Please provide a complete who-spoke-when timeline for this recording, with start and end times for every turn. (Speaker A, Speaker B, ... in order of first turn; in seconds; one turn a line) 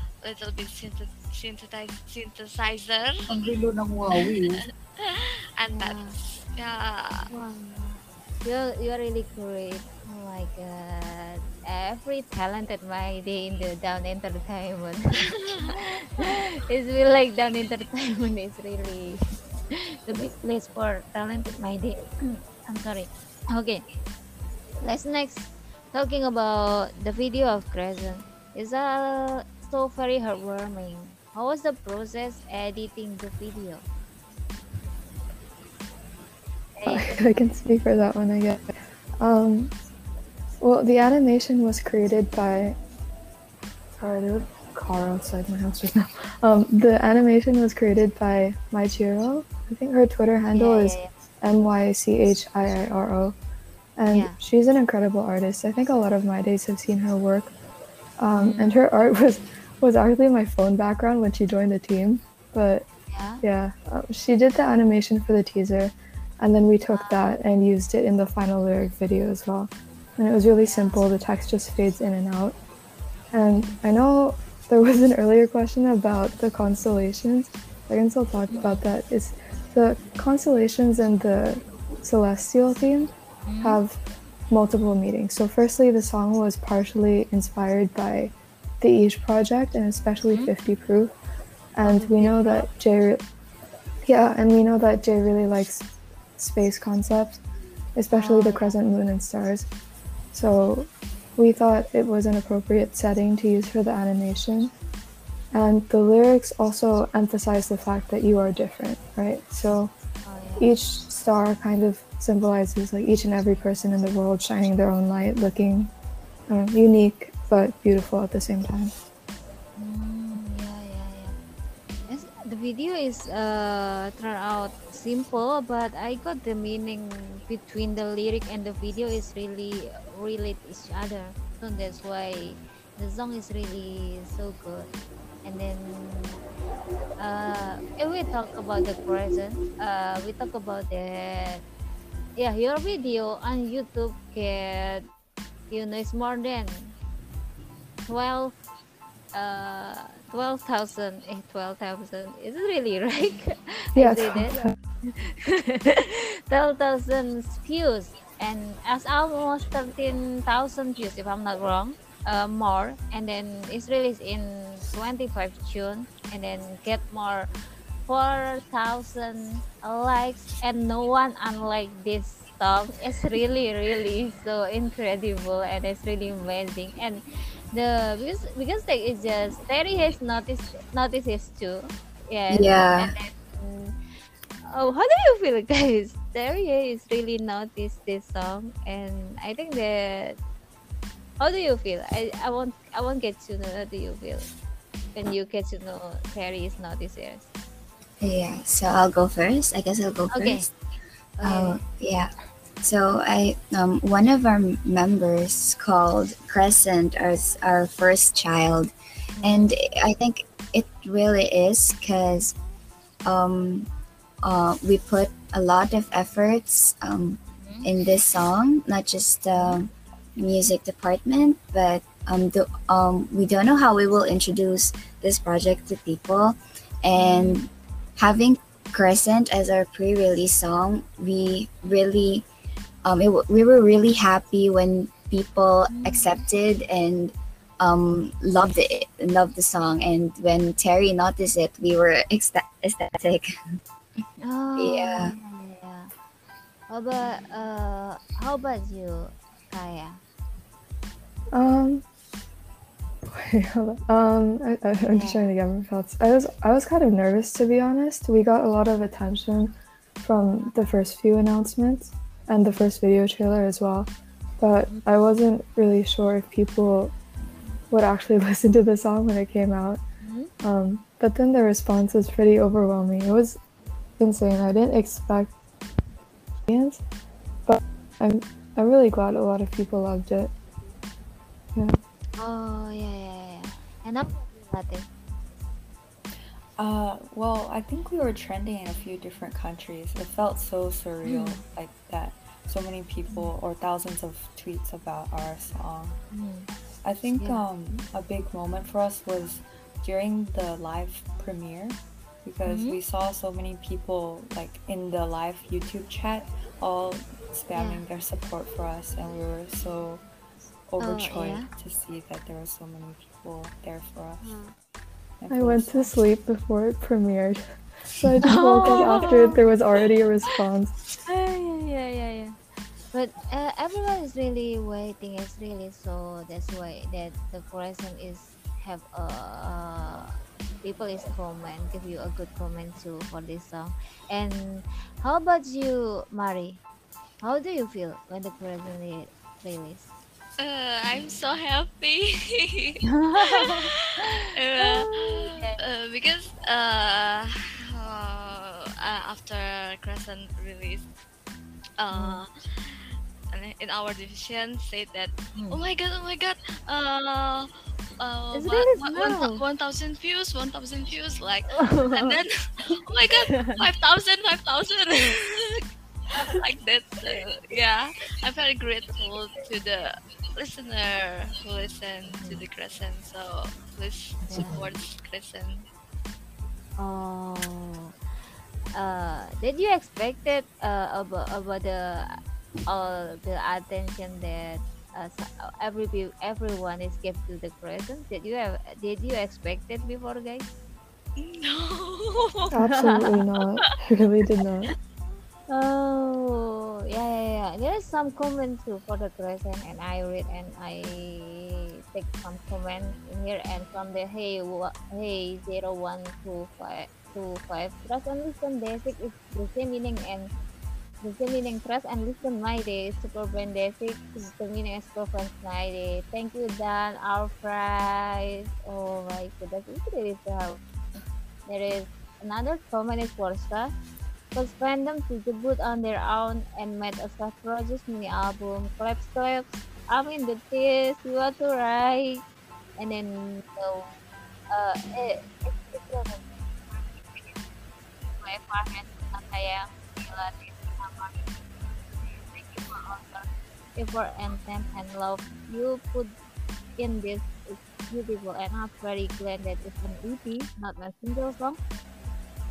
Speaker A: 0.2-7.3
Speaker B: 3.3-4.6
Speaker C: 5.7-6.2
Speaker C: 7.3-19.2
Speaker A: 15.1-16.3
Speaker C: 19.7-23.9
Speaker C: 24.8-33.9
Speaker C: 36.8-37.1
Speaker D: 36.9-39.7
Speaker D: 40.6-42.8
Speaker D: 44.0-53.4
Speaker C: 50.5-51.1
Speaker D: 54.0-57.5
Speaker C: 54.1-54.4
Speaker D: 58.2-62.9
Speaker C: 58.3-58.7
Speaker C: 63.1-63.4
Speaker D: 63.4-72.6
Speaker C: 66.9-67.4
Speaker C: 70.6-71.1
Speaker D: 73.3-84.0
Speaker C: 73.5-73.8
Speaker C: 78.5-78.8
Speaker C: 83.5-83.8
Speaker D: 84.5-91.2
Speaker D: 91.8-93.2
Speaker C: 91.8-92.7
Speaker D: 94.0-95.8
Speaker D: 96.4-97.4
Speaker D: 98.0-99.7
Speaker C: 98.1-98.8
Speaker D: 100.3-104.7
Speaker D: 105.5-109.9
Speaker C: 110.2-110.7
Speaker D: 110.6-115.9
Speaker D: 116.5-118.9
Speaker C: 119.8-121.3
Speaker C: 122.1-134.9
Speaker C: 135.4-136.4
Speaker C: 137.2-141.6
Speaker C: 142.4-145.1
Speaker C: 145.7-146.9
Speaker C: 148.1-148.6
Speaker C: 149.3-167.5
Speaker D: 154.0-154.8
Speaker C: 168.1-177.2
Speaker C: 177.7-183.9
Speaker B: 182.5-183.1
Speaker C: 184.7-190.4
Speaker C: 191.4-194.5
Speaker C: 195.2-197.5
Speaker B: 198.2-200.7
Speaker C: 200.3-200.7
Speaker C: 201.4-201.8
Speaker B: 201.4-212.6
Speaker C: 209.4-209.7
Speaker B: 213.3-213.9
Speaker B: 214.4-232.4
Speaker C: 217.6-217.9
Speaker C: 219.5-219.8
Speaker C: 227.2-227.6
Speaker B: 233.1-243.6
Speaker C: 235.9-236.4
Speaker C: 244.4-246.1
Speaker B: 244.8-245.3
Speaker C: 246.9-250.2
Speaker D: 251.5-252.0
Speaker D: 253.3-267.1
Speaker C: 255.1-255.5
Speaker C: 260.6-260.9
Speaker D: 267.9-270.0
Speaker C: 270.2-270.5
Speaker D: 270.6-273.6
Speaker D: 274.2-275.5
Speaker D: 276.7-277.0
Speaker D: 277.7-280.5
Speaker C: 282.4-285.1
Speaker E: 286.8-296.2
Speaker C: 291.2-291.6
Speaker C: 296.3-296.7
Speaker E: 297.0-310.2
Speaker C: 297.4-297.6
Speaker C: 302.6-303.0
Speaker C: 307.7-308.0
Speaker E: 310.9-314.6
Speaker C: 311.0-311.7
Speaker C: 314.4-314.7
Speaker E: 315.4-316.2
Speaker D: 315.5-320.9
Speaker C: 318.4-319.6
Speaker C: 321.3-322.6
Speaker C: 323.1-336.8
Speaker C: 337.4-340.1
Speaker A: 340.6-351.1
Speaker C: 343.1-345.8
Speaker A: 352.0-365.8
Speaker C: 352.1-352.4
Speaker C: 358.5-359.6
Speaker C: 361.7-362.4
Speaker C: 363.5-363.8
Speaker C: 366.3-366.6
Speaker A: 366.4-375.9
Speaker C: 372.3-372.6
Speaker C: 374.5-374.8
Speaker C: 377.0-378.1
Speaker C: 378.9-390.7
Speaker A: 391.4-392.7
Speaker D: 392.7-394.9
Speaker C: 395.7-410.5
Speaker C: 411.2-420.8
Speaker C: 421.7-423.9
Speaker C: 424.6-432.4
Speaker C: 433.0-434.1
Speaker C: 434.7-437.6
Speaker C: 438.4-441.4
Speaker C: 442.3-446.4
Speaker C: 447.0-451.8